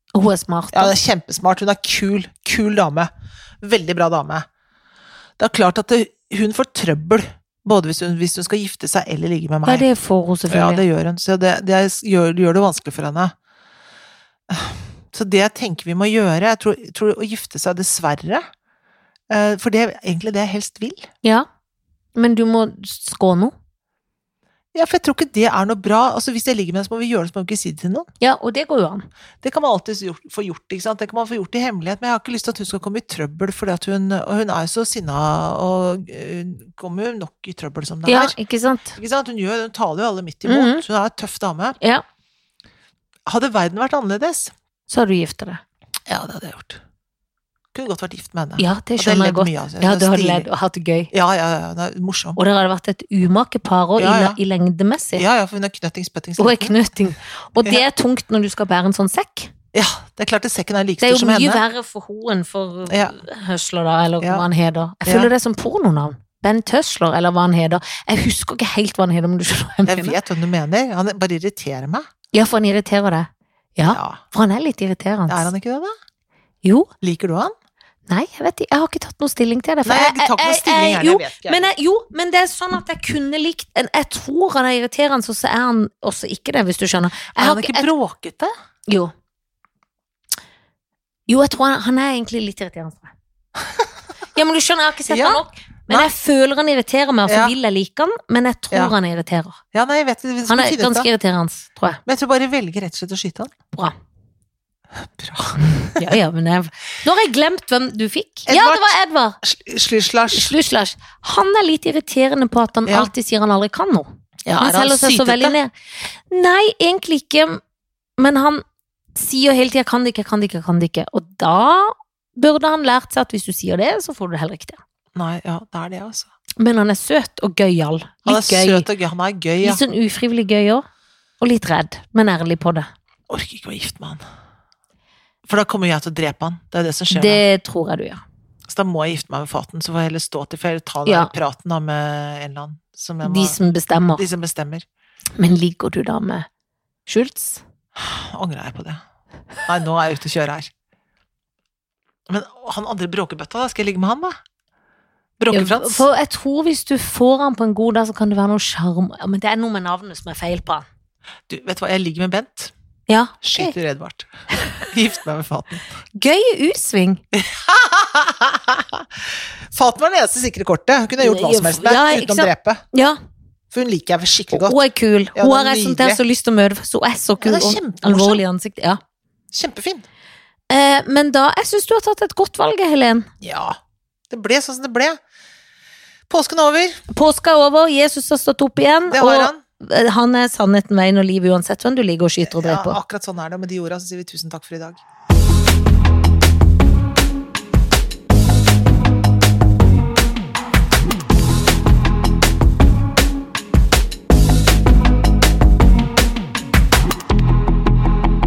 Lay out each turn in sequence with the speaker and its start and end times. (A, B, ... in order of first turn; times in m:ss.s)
0:00.1-0:01.0 A
0:00.7-0:03.1 B
0:03.6-0:04.5 B
0:05.4-0:09.9 B
0:09.7-0:10.8 A
0:10.5-0:13.3 B
0:14.5-0:18.5 B
0:19.3-0:21.1 B
0:22.2-0:23.5 A
0:24.7-0:28.1 B
0:28.2-0:29.1 A
0:29.4-0:38.4 B
0:38.1-0:39.0 A
0:39.0-0:41.8 B
0:40.5-0:40.8 A
0:43.3-0:44.5 B
0:44.9-0:45.6 A
0:46.1-0:46.8 B
0:47.7-0:50.5 B
0:48.6-0:51.1 A
0:51.1-0:52.4 B
0:52.4-0:55.2 A
0:54.0-0:54.4 B
0:55.2-0:56.8 B
0:56.4-0:59.5 A
0:59.7-1:01.6 B
1:01.0-1:10.2 A
1:02.9-1:03.2 B
1:04.2-1:04.5 B
1:05.0-1:05.3 B
1:09.8-1:12.1 B
1:12.3-1:15.5 A
1:13.8-1:14.2 B
1:15.3-1:15.9 B
1:16.6-1:16.9 A
1:17.0-1:17.5 B
1:18.1-1:27.9 A
1:19.8-1:21.7 B
1:27.3-1:28.5 B
1:28.9-1:29.1 A
1:31.3-1:33.1 A
1:34.3-1:39.6 A
1:35.1-1:36.1 B
1:37.3-1:37.5 B
1:39.7-1:41.1 B
1:40.5-1:42.0 A
1:42.1-1:43.5 B
1:45.0-1:46.0 B
1:46.0-1:49.4 A
1:48.5-1:50.5 B
1:50.3-1:55.7 A
1:54.5-1:55.6 B
1:56.3-1:57.6 A
1:58.2-1:58.6 A
1:59.2-2:04.8 A
2:05.2-2:06.3 B
2:06.6-2:08.9 A
2:08.3-2:09.8 B
2:09.6-2:10.8 A
2:11.4-2:12.9 A
2:13.3-2:14.2 B
2:15.4-2:17.4 B
2:17.1-2:18.2 A
2:18.7-2:23.6 B
2:21.0-2:21.3 A
2:23.2-2:24.2 A
2:24.2-2:24.8 B
2:25.4-2:26.5 A
2:27.1-2:27.6 A
2:28.0-2:29.0 B
2:29.7-2:30.7 B
2:32.3-2:34.4 B
2:35.4-2:36.1 B
2:35.5-2:40.9 A
2:41.5-2:42.7 B
2:43.1-2:43.8 A
2:43.4-2:45.9 B
2:46.2-2:47.2 A
2:47.3-2:49.1 B
2:49.7-2:52.8 B
2:51.2-2:53.2 A
2:53.7-2:54.8 B
2:54.5-2:59.0 A
2:55.4-2:56.2 B
2:57.4-2:58.4 B
2:59.5-3:00.0 B
3:00.7-3:03.3 A
3:03.4-3:03.8 B
3:04.3-3:05.2 B
3:06.3-3:07.0 B
3:07.1-3:13.0 A
3:09.1-3:09.6 B
3:12.4-3:15.0 B